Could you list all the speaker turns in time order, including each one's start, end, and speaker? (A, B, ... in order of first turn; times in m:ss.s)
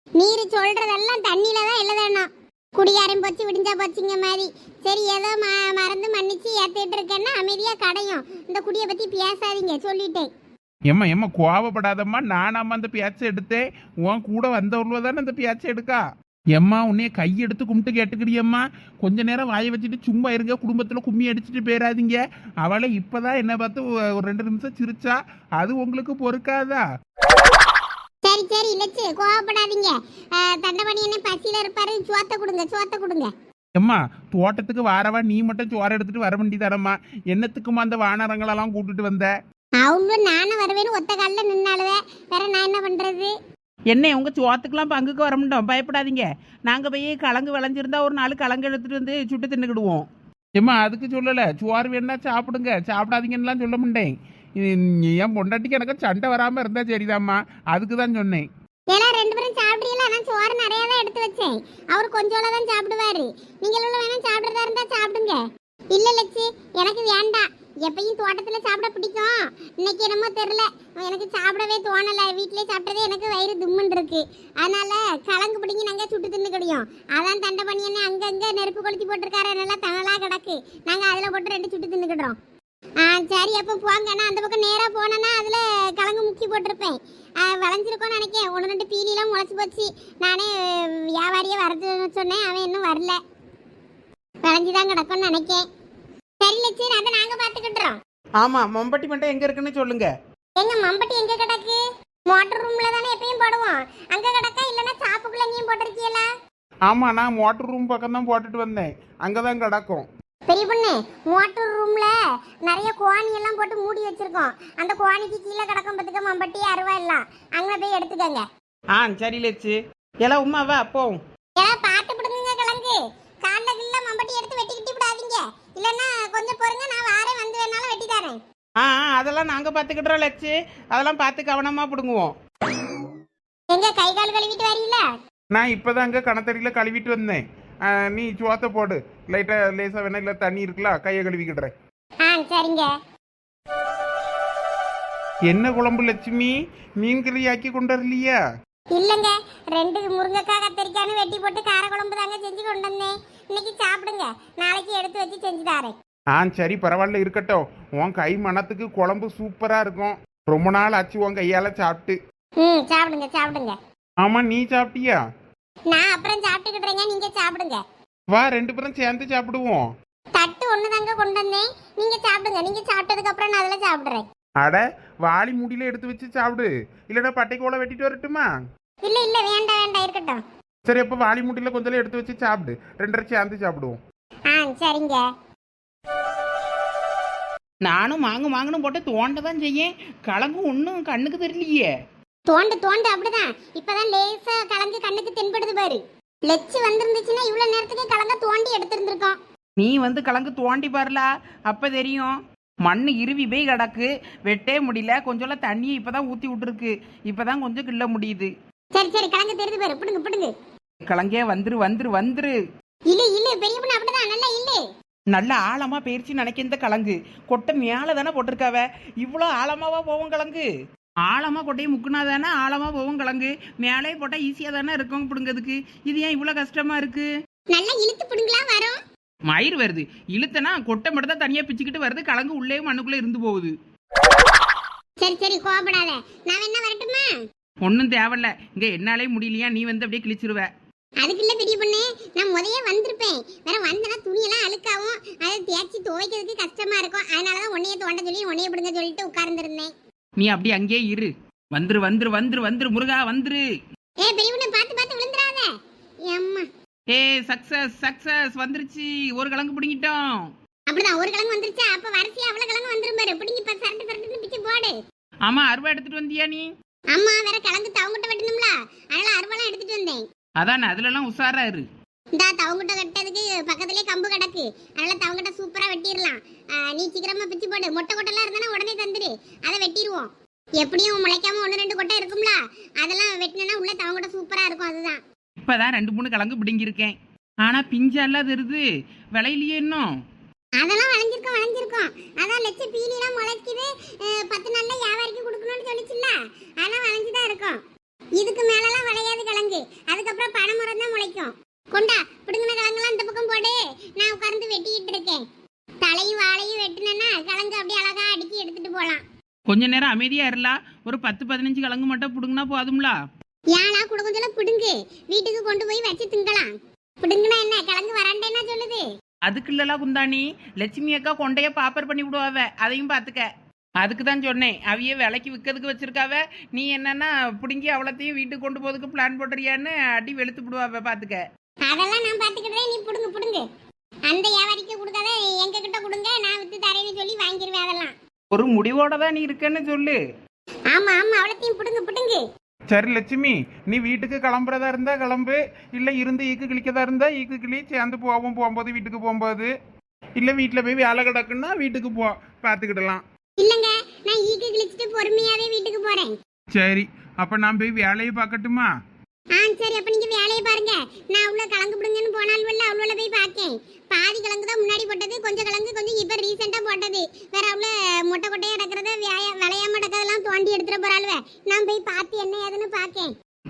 0:00.2-0:10.3 A
0:10.9-0:26.8 B
0:28.2-0:33.3 A
0:33.8-0:39.3 B
0:39.8-0:43.3 A
0:43.9-0:50.1 C
0:50.6-0:58.5 B
0:58.9-1:05.4 A
1:05.9-1:22.4 A
1:23.0-1:33.2 A
1:34.4-1:35.7 A
1:36.4-1:38.0 A
1:38.4-1:40.1 C
1:40.6-1:46.3 A
1:46.9-1:50.1 B
1:50.5-1:52.1 A
1:52.7-1:58.4 A
1:58.9-2:01.2 C
2:01.6-2:08.4 A
2:08.8-2:12.3 C
2:13.7-2:15.0 A
2:15.5-2:21.7 B
2:22.2-2:22.9 A
2:25.5-2:28.4 B
2:28.9-2:35.9 A
2:36.4-2:42.2 B
2:42.6-2:43.8 A
2:44.2-2:45.2 B
2:45.9-2:47.8 A
2:48.3-2:49.8 B
2:50.4-2:54.2 A
2:54.6-2:58.5 B
2:59.0-3:00.4 A
3:00.9-3:04.0 B
3:04.5-3:05.2 A
3:07.8-3:11.9 C
3:12.5-3:19.4 A
3:19.8-3:28.5 C
3:28.9-3:30.5 A
3:31.0-3:32.6 C
3:33.1-3:34.8 A
3:35.3-3:40.7 C
3:41.3-3:47.3 C
3:47.7-3:49.0 A
3:49.5-3:53.7 C
3:55.2-3:57.3 A
3:57.8-4:00.7 C
4:01.2-4:09.9 A
4:10.4-4:13.6 C
4:14.2-4:15.7 A
4:16.3-4:16.7 A
4:17.1-4:20.5 C
4:20.9-4:25.0 A
4:25.5-4:26.7 C
4:27.1-4:30.2 A
4:30.6-4:31.9 C
4:32.4-4:45.2 A
4:45.6-4:50.1 C
4:50.8-4:57.8 A
4:58.4-5:05.4 A
5:06.0-5:09.2 A
5:09.7-5:13.2 C
5:13.7-5:19.0 A
5:19.5-5:23.5 C
5:24.0-5:31.4 C
5:31.9-5:33.6 A
5:34.3-5:38.1 A
5:38.5-5:40.2 C
5:40.9-5:42.4 A
5:42.9-5:49.7 B
5:50.4-5:53.2 B
5:53.6-5:56.4 A
5:56.7-5:58.9 B
5:59.6-6:13.3 A